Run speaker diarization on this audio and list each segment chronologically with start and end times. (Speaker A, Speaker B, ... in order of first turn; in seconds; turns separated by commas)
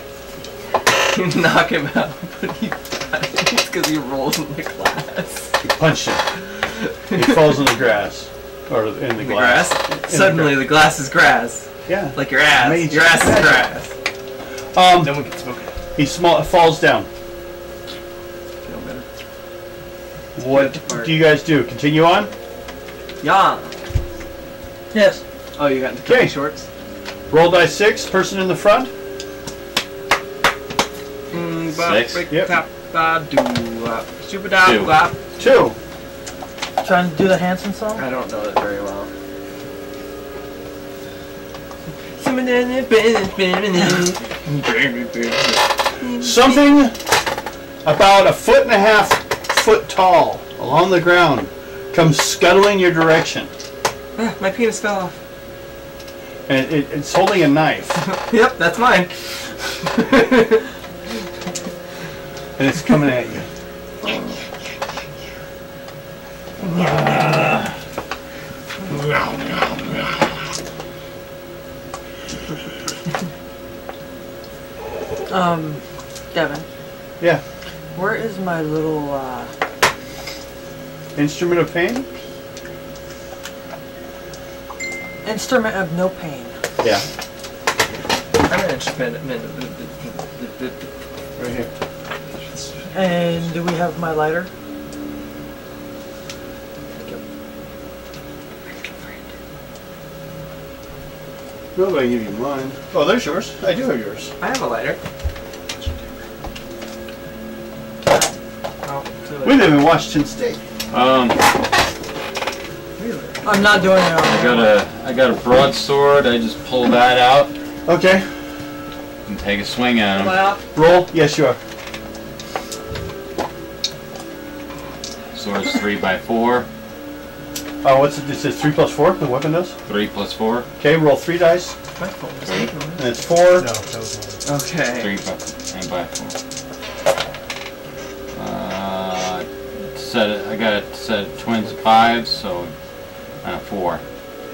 Speaker A: 1.1-5.5, Speaker B: 5.6-6.2, Speaker B: 7.1-10.7, Speaker A: 9.2-13.9, Speaker B: 11.9-13.7, Speaker B: 14.7-15.2, Speaker C: 15.0-15.6, Speaker B: 15.9-17.1, Speaker C: 18.6-19.0, Speaker A: 18.7-19.0, Speaker B: 20.4-22.3, Speaker A: 20.5-21.1, Speaker A: 23.2-23.8, Speaker D: 24.9-25.2, Speaker A: 25.6-26.6, Speaker B: 26.0-26.4, Speaker B: 27.3-28.9, Speaker A: 31.3-35.2, Speaker E: 31.7-32.3, Speaker B: 32.3-32.5, Speaker E: 34.5-35.1, Speaker B: 35.4-35.8, Speaker D: 36.8-38.0, Speaker A: 38.0-39.1, Speaker A: 42.2-46.4, Speaker B: 46.2-47.0, Speaker B: 47.8-53.5, Speaker A: 54.2-55.1, Speaker B: 56.5-58.0, Speaker A: 58.0-59.1, Speaker A: 59.8-60.6, Speaker B: 62.6-63.5, Speaker A: 64.0-64.4, Speaker A: 66.6-67.6, Speaker D: 75.3-75.8, Speaker D: 76.3-76.7, Speaker D: 77.9-79.5, Speaker B: 81.2-82.1, Speaker D: 85.2-86.5, Speaker B: 86.8-87.0, Speaker A: 88.4-90.9, Speaker B: 91.4-91.7, Speaker A: 92.5-93.5, Speaker D: 92.9-94.5, Speaker B: 101.7-104.3, Speaker A: 104.4-105.0, Speaker A: 108.8-109.7, Speaker B: 109.4-110.6, Speaker E: 110.9-111.5, Speaker A: 113.0-113.8, Speaker D: 113.4-114.7, Speaker E: 114.1-117.5, Speaker B: 117.8-118.3, Speaker E: 119.2-120.5, Speaker D: 120.2-120.6, Speaker B: 120.7-121.6, Speaker E: 125.3-126.7, Speaker B: 127.8-129.8, Speaker E: 129.8-130.7, Speaker B: 130.8-131.8, Speaker A: 131.9-133.1, Speaker E: 132.4-132.7, Speaker B: 133.0-133.7, Speaker C: 133.5-134.4, Speaker A: 134.4-135.1, Speaker E: 134.9-136.3, Speaker E: 138.3-142.7, Speaker E: 143.4-144.0